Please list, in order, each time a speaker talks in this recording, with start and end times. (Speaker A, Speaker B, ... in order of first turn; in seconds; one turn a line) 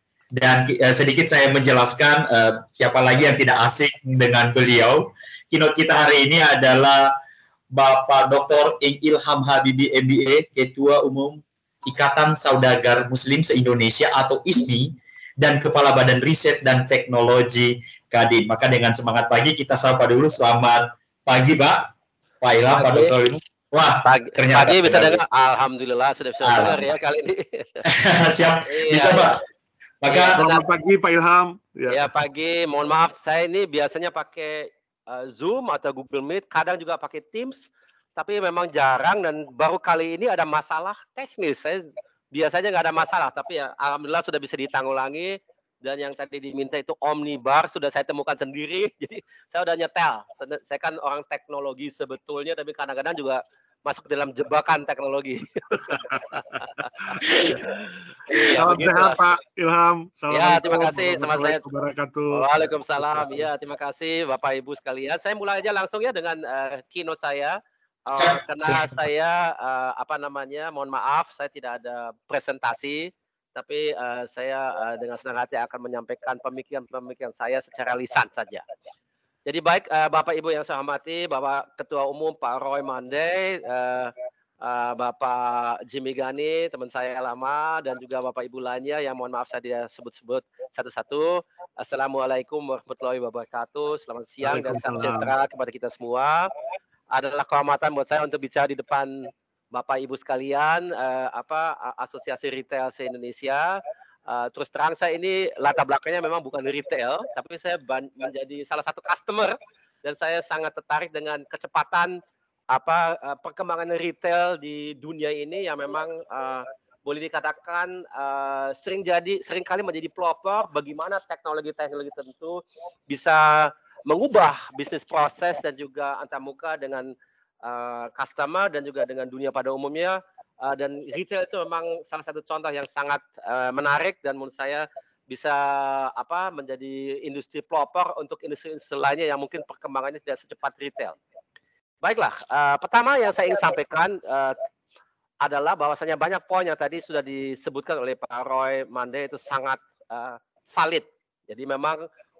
Speaker A: 0.3-7.1
Speaker A: 7.7-25.2
Speaker B: 22.7-23.1
Speaker B: 24.0-27.8
Speaker A: 26.4-26.9
Speaker A: 27.9-29.4
Speaker B: 28.6-29.4
Speaker A: 30.0-30.4
Speaker B: 30.1-30.6
Speaker C: 30.3-32.0
Speaker B: 31.9-56.6
Speaker B: 57.2-57.6
Speaker C: 57.4-57.6
Speaker B: 58.3-59.2
Speaker C: 58.3-63.5
Speaker B: 60.3-61.6
Speaker B: 62.3-78.6
Speaker A: 68.1-69.0
Speaker B: 79.5-96.5
Speaker C: 94.4-95.3
Speaker B: 97.1-141.2
Speaker B: 142.0-144.6
Speaker B: 145.4-152.1